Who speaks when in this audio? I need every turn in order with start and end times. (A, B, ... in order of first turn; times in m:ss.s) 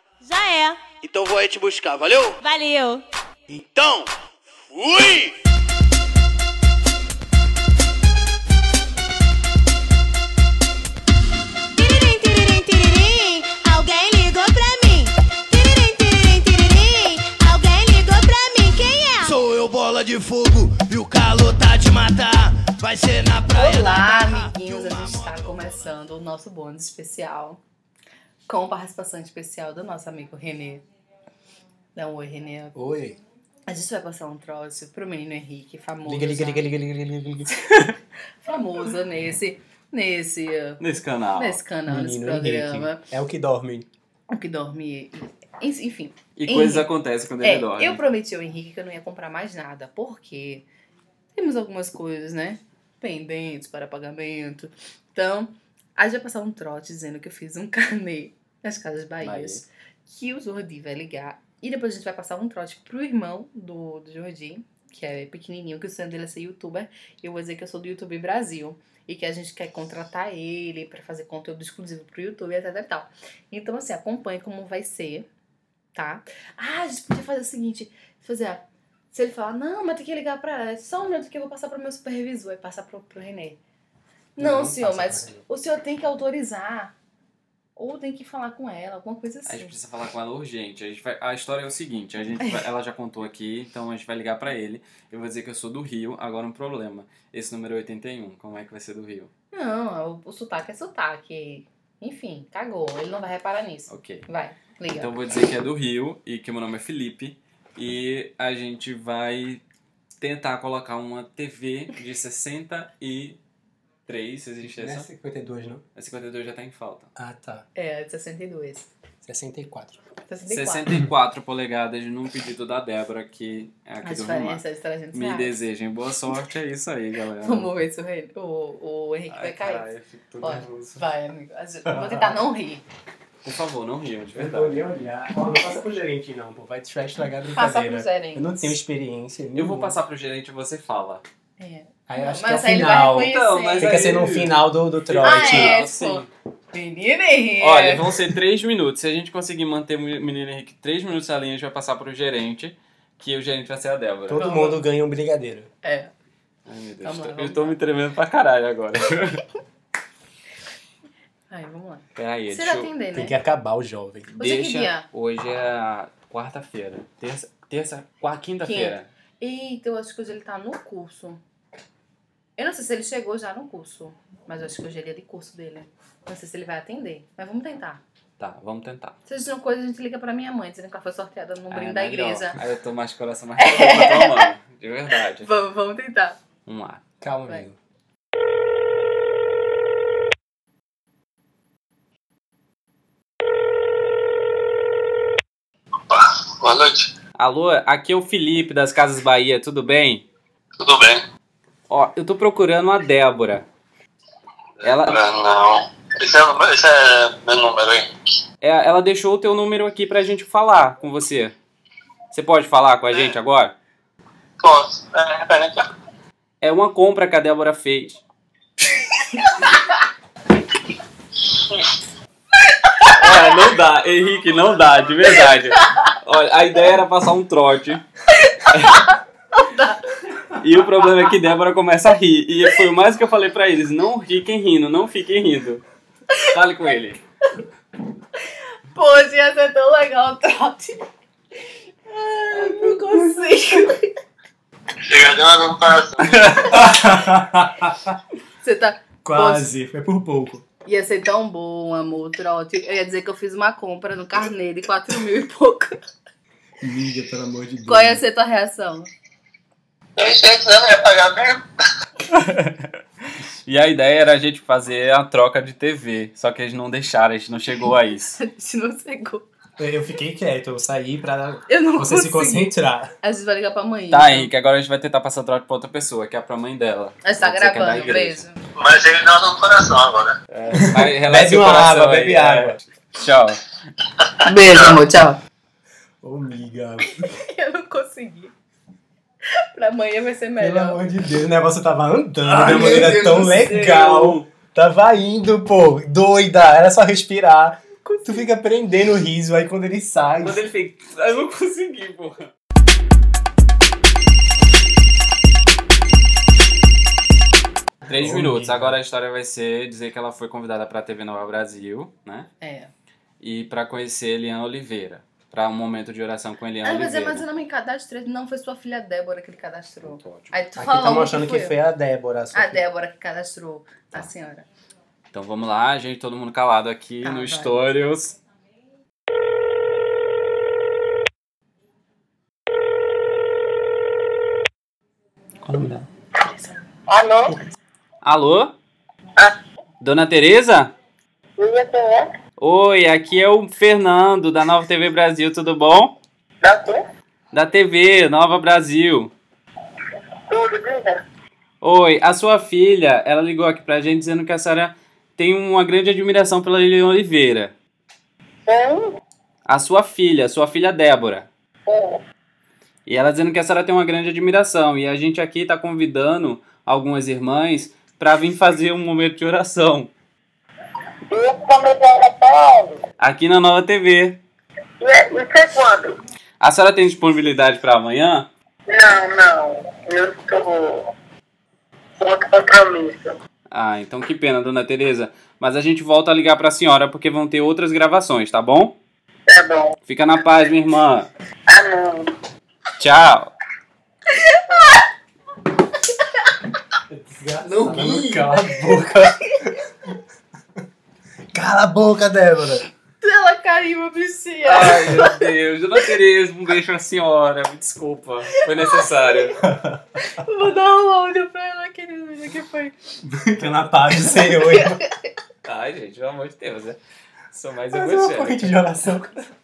0:00.2-0:01.0 A
0:01.0-0:02.4 B
0:02.4-0:03.0 A
0:03.6-0:04.1 B
0:04.7-0:05.4 B
0:11.8-0:19.4 A
0:19.5-0:23.8 B
0:23.5-0:27.6 C
0:28.4-0:30.8 C
0:31.9-0:32.7 C
0:32.7-0:33.2 D
0:33.7-0:36.7 C
0:36.0-0:37.6 D
0:38.4-0:40.8 C
0:40.8-0:41.6 E
0:41.4-0:43.0 C
0:41.9-0:43.9 D
0:44.3-0:46.9 C
0:46.4-0:48.0 E
0:47.4-0:50.6 C
0:51.3-1:15.3 C
0:59.2-0:59.6 E
1:15.9-1:23.6 C
1:24.4-1:26.9 C
1:24.4-1:25.4 D
1:27.8-1:29.7 C
1:29.4-1:39.3 E
1:39.5-1:45.1 C
1:43.9-1:44.3 E
1:45.0-1:49.6 E
1:50.2-1:53.4 E
1:54.0-1:55.1 E
1:54.7-1:55.8 D
1:55.9-1:57.1 E
1:57.2-1:57.6 D
1:57.7-1:58.9 C
1:59.2-2:00.0 D
2:00.3-2:00.9 C
2:00.5-2:04.6 E
2:04.0-2:05.6 C
2:05.1-2:07.7 E
2:07.4-2:09.9 C
2:09.3-2:11.0 E
2:10.4-2:12.8 C
2:11.9-2:12.4 D
2:13.4-2:14.8 E
2:14.4-2:20.0 D
2:17.5-2:18.8 C
2:19.5-2:21.2 E
2:21.6-2:24.0 C
2:22.1-2:25.8 D
2:23.1-2:26.3 E
2:25.2-2:28.0 C
2:27.6-2:34.5 E
2:34.3-2:35.7 D
2:34.4-2:34.8 C
2:35.8-2:36.1 C
2:36.6-2:39.4 E
2:37.0-2:37.8 C
2:41.5-2:43.4 C
2:42.1-2:42.9 E
2:43.1-2:44.3 D
2:44.3-2:49.1 E
2:44.4-2:45.1 C
2:48.6-2:51.4 C
2:52.6-2:58.0 C
2:58.4-2:59.2 E
2:59.2-3:02.6 C
3:01.7-3:05.5 E
3:03.6-3:04.5 C
3:05.4-3:06.4 C
3:06.6-3:07.0 E
3:07.2-3:07.8 D
3:16.1-3:17.1 F
3:17.4-3:20.2 E
3:20.8-3:21.2 F
3:21.9-3:23.7 E
3:24.8-3:28.1 F
3:24.8-3:25.2 E
3:28.6-3:31.5 E
3:32.3-3:33.8 E
3:34.6-3:35.8 F
3:36.6-3:38.2 E
3:39.4-3:39.7 C
3:43.0-3:48.0 E
3:48.3-3:50.0 C
3:48.7-3:49.0 E
3:50.6-3:55.8 E
3:56.5-3:57.2 E
3:58.9-4:01.0 C
4:02.1-4:04.0 C
4:05.1-4:06.3 F
4:06.3-4:06.7 E
4:06.7-4:08.2 D
4:08.6-4:09.7 C
4:09.2-4:10.6 D
4:10.8-4:15.9 C
4:16.8-4:18.2 D
4:17.8-4:19.1 C
4:20.2-4:21.6 G
4:22.3-4:22.9 E
4:23.6-4:28.4 E
4:28.4-4:29.4 C
4:29.8-4:33.1 D
4:31.7-4:34.5 C
4:34.1-4:38.4 E
4:37.2-4:38.6 C
4:38.8-4:40.3 F
4:40.5-4:43.6 E
4:40.7-4:42.8 D
4:44.4-4:45.4 C
4:46.2-4:47.3 D
4:47.3-4:48.5 C
4:49.7-4:51.0 C
4:50.6-5:00.6 D
4:52.5-4:54.4 E
4:58.0-4:58.5 C
5:00.4-5:02.5 E
5:08.0-5:08.9 D
5:08.1-5:12.5 E
5:12.6-5:12.9 C
5:13.4-5:17.4 E
5:16.8-5:21.8 C
5:20.0-5:20.6 E
5:20.8-5:22.8 D
5:22.5-5:24.7 C
5:25.3-5:28.4 E
5:27.2-5:27.8 C
5:35.6-5:36.0 E
5:37.1-5:37.6 G
5:38.2-5:38.7 E
5:40.0-5:40.9 E
5:41.6-5:42.3 G
5:42.6-5:46.1 E
5:46.6-5:47.0 G
5:47.5-5:49.3 E
5:50.5-5:51.2 G
5:51.8-5:57.7 E
5:58.7-5:59.1 G
5:59.6-6:01.5 E
6:01.9-6:02.2 G
6:03.0-6:10.1 E
6:11.3-6:13.0 G
6:13.2-6:14.4 E
6:15.0-6:16.2 G
6:16.6-6:18.5 E
6:18.9-6:21.0 G
6:22.2-6:23.3 G
6:23.7-6:29.0 E
6:29.5-6:29.9 G
6:30.0-6:31.3 E
6:31.7-6:32.3 G
6:33.0-6:33.5 E
6:34.4-6:35.0 C
6:37.1-6:39.8 D
6:37.7-6:38.4 E
6:41.5-6:42.9 D
6:43.2-6:45.3 C
6:44.6-6:49.6 E
6:48.7-6:49.0 C
6:49.6-6:50.0 D
6:50.2-6:52.9 C
6:53.2-6:55.0 D
6:54.1-6:55.3 C
6:55.6-6:57.0 E
6:57.5-6:58.9 E
6:57.9-6:59.4 D